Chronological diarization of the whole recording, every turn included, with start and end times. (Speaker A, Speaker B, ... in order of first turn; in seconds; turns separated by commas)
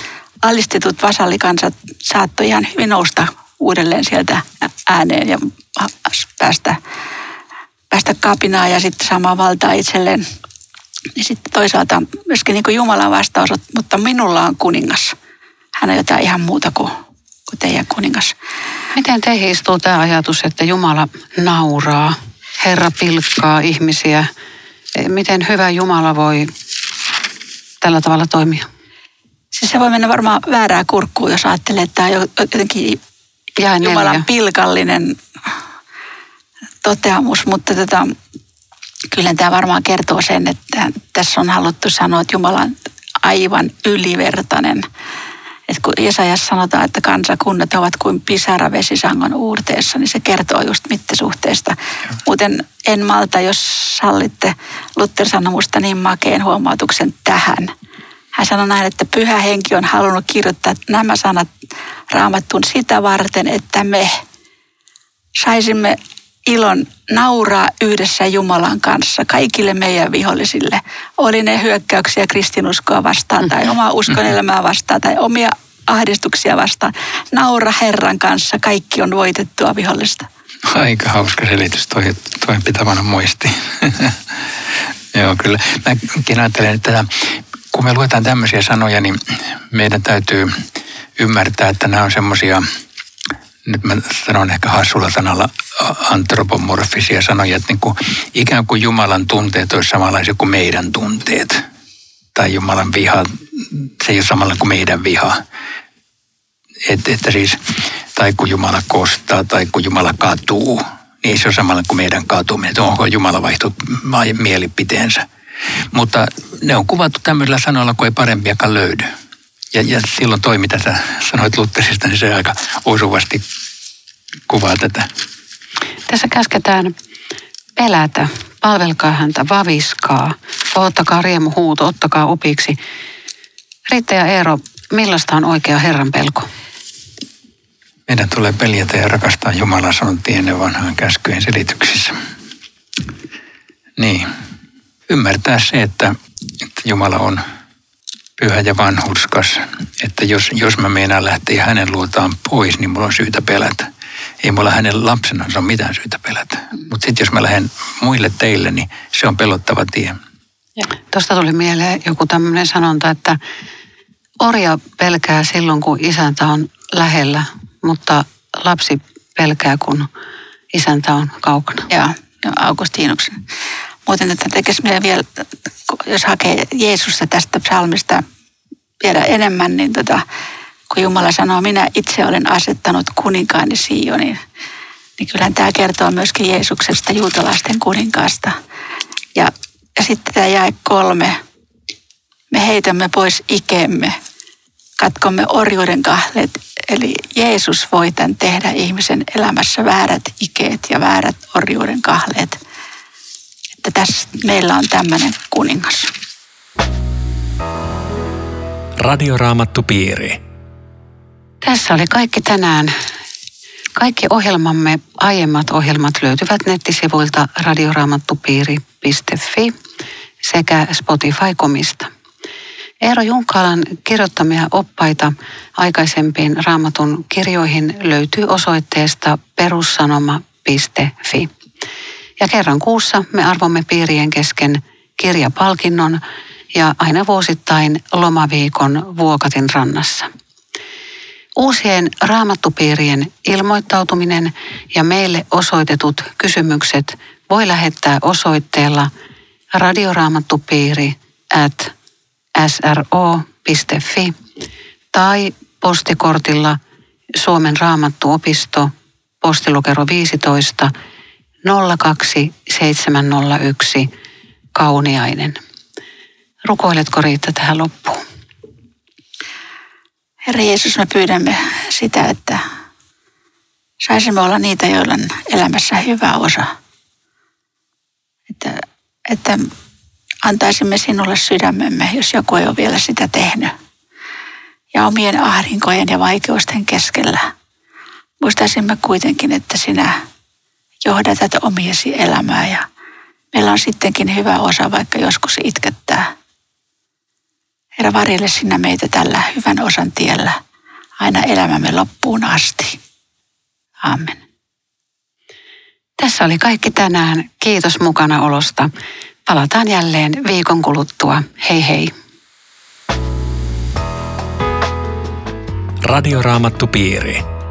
Speaker A: 0.4-6.8, Speaker A: 7.9-10.2, Speaker A: 11.2-15.1, Speaker A: 15.8-16.9, Speaker A: 17.5-18.3, Speaker B: 18.9-24.3, Speaker B: 24.9-26.5, Speaker B: 27.8-28.6, Speaker A: 29.5-33.0, Speaker B: 33.6-34.2, Speaker A: 33.8-35.2, Speaker A: 36.8-38.1, Speaker A: 39.1-44.9, Speaker A: 45.7-57.7, Speaker A: 58.3-61.5, Speaker A: 62.1-64.2, Speaker A: 65.4-80.3, Speaker C: 80.7-84.2, Speaker C: 85.1-90.5, Speaker C: 91.2-92.6, Speaker C: 93.6-101.6, Speaker C: 102.3-105.4, Speaker C: 106.8-107.6, Speaker C: 108.1-115.3, Speaker C: 115.9-119.1, Speaker C: 119.7-123.4, Speaker C: 124.5-125.1, Speaker B: 126.1-126.9, Speaker B: 127.8-132.8, Speaker B: 133.9-136.5, Speaker C: 138.1-142.2, Speaker C: 144.0-144.3, Speaker C: 145.1-147.4, Speaker C: 148.4-153.9, Speaker C: 154.4-160.2, Speaker B: 161.1-163.4, Speaker B: 164.4-170.1, Speaker B: 170.7-171.9, Speaker A: 171.9-173.4, Speaker A: 174.1-178.2, Speaker A: 179.0-180.2, Speaker A: 180.9-184.4, Speaker A: 185.2-188.6, Speaker A: 189.3-191.4, Speaker A: 192.5-194.2, Speaker A: 195.0-202.6, Speaker A: 203.8-206.1, Speaker D: 209.0-210.4, Speaker B: 211.6-212.9, Speaker B: 213.9-219.8, Speaker B: 220.4-222.1, Speaker B: 223.0-231.5, Speaker B: 232.4-236.2, Speaker B: 236.7-240.3, Speaker B: 241.6-249.1, Speaker B: 249.7-251.9, Speaker B: 252.6-254.3, Speaker B: 255.1-256.8, Speaker B: 257.4-258.9, Speaker B: 259.4-260.9, Speaker B: 261.6-264.1, Speaker B: 264.7-265.6, Speaker B: 266.6-268.2, Speaker A: 270.5-272.6, Speaker A: 274.0-276.7, Speaker A: 278.5-279.7, Speaker A: 280.4-283.7, Speaker A: 284.9-287.4, Speaker A: 288.4-290.1, Speaker A: 291.0-292.9, Speaker A: 293.5-296.3, Speaker A: 298.0-300.6, Speaker A: 301.2-303.0, Speaker A: 304.0-304.4, Speaker B: 306.2-308.9, Speaker B: 309.5-312.1, Speaker D: 316.0-317.4